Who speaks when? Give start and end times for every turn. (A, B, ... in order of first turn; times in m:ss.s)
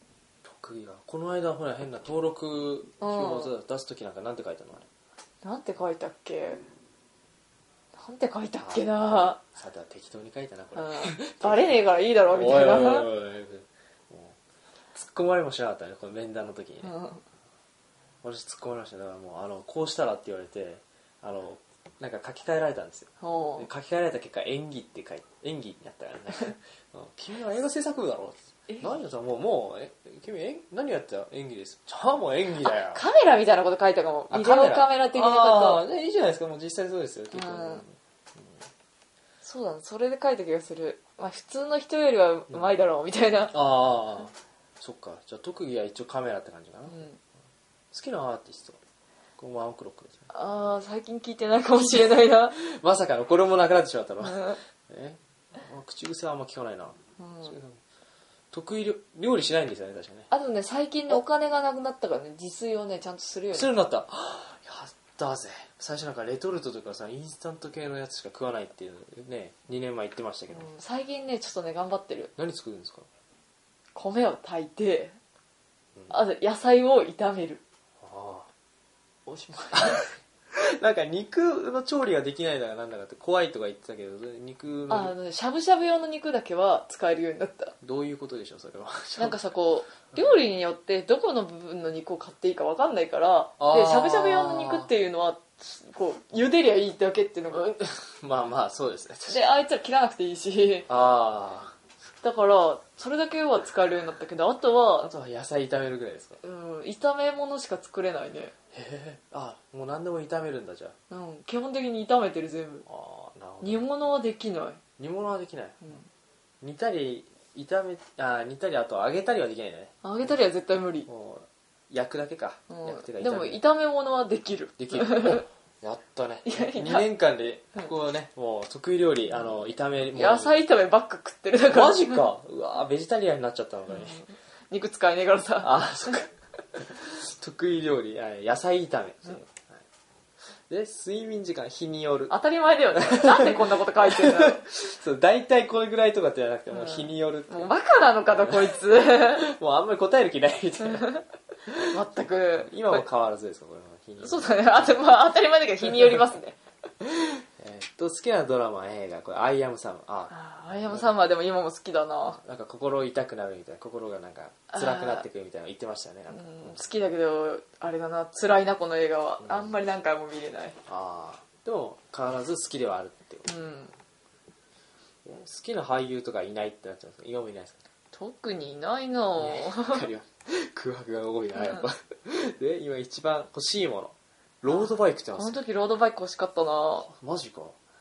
0:00.4-0:04.8 A
0:03.0-0:03.5 B
0:05.4-0:06.6 B
0:08.0-0:09.4 B
0:08.6-0:14.4 A
0:10.7-0:13.1 B
0:14.9-0:17.0 A
0:16.8-0:17.2 B
0:18.2-0:33.0 A
0:23.2-0:23.7 B
0:32.7-0:35.8 B
0:34.3-0:38.0 A
0:37.3-0:37.8 B
0:39.4-0:43.6 B
0:43.5-0:47.0 A
0:46.9-0:47.2 B
0:47.9-0:48.8 A
0:49.4-0:50.2 A
0:50.3-0:52.6 B
0:52.5-0:57.8 A
0:54.2-0:54.6 B
0:57.2-0:57.5 B
0:58.5-1:00.3 A
1:00.3-1:03.7 B
1:03.5-1:10.7 A
1:10.5-1:12.3 B
1:12.4-1:13.1 A
1:13.9-1:15.2 B
1:16.1-1:17.6 B
1:18.0-1:18.5 A
1:19.2-1:20.1 B
1:19.7-1:25.1 A
1:24.9-1:27.7 B
1:27.8-1:29.4 A
1:29.2-1:37.7 B
1:30.1-1:30.4 A
1:33.6-1:34.9 A
1:37.5-1:39.4 A
1:39.3-1:40.9 B
1:40.9-1:41.7 A
1:42.2-1:45.1 B
1:45.0-1:46.4 A
1:46.4-1:48.5 B
1:48.7-1:50.9 A
1:51.1-1:52.8 B
1:52.8-1:53.9 A
1:53.6-1:54.8 B
1:55.0-1:56.0 A
1:56.6-1:59.9 A
2:00.0-2:01.1 B
2:01.0-2:03.6 A
2:02.7-2:05.4 B
2:04.8-2:10.6 A
2:06.4-2:07.1 B
2:10.1-2:12.2 B
2:11.7-2:14.2 A
2:13.9-2:16.2 B
2:15.6-2:19.8 A
2:20.7-2:22.4 A
2:22.3-2:24.6 B
2:22.9-2:27.7 A
2:26.7-2:29.4 B
2:28.3-2:31.1 A
2:30.8-2:31.2 B
2:31.7-2:32.0 A
2:31.9-2:33.0 B
2:32.6-2:35.0 A
2:34.2-2:36.6 B
2:35.8-2:36.2 A
2:37.0-2:41.1 A
2:40.3-2:42.4 B
2:42.4-2:46.8 A
2:44.7-2:45.2 B
2:46.3-2:50.8 B
2:49.4-2:49.8 A
2:50.9-2:53.5 A
2:53.5-2:53.9 B
2:55.2-2:57.8 A
2:58.1-3:00.1 B
2:59.4-3:05.6 A
3:01.6-3:01.8 B
3:04.7-3:07.1 B
3:07.0-3:07.8 A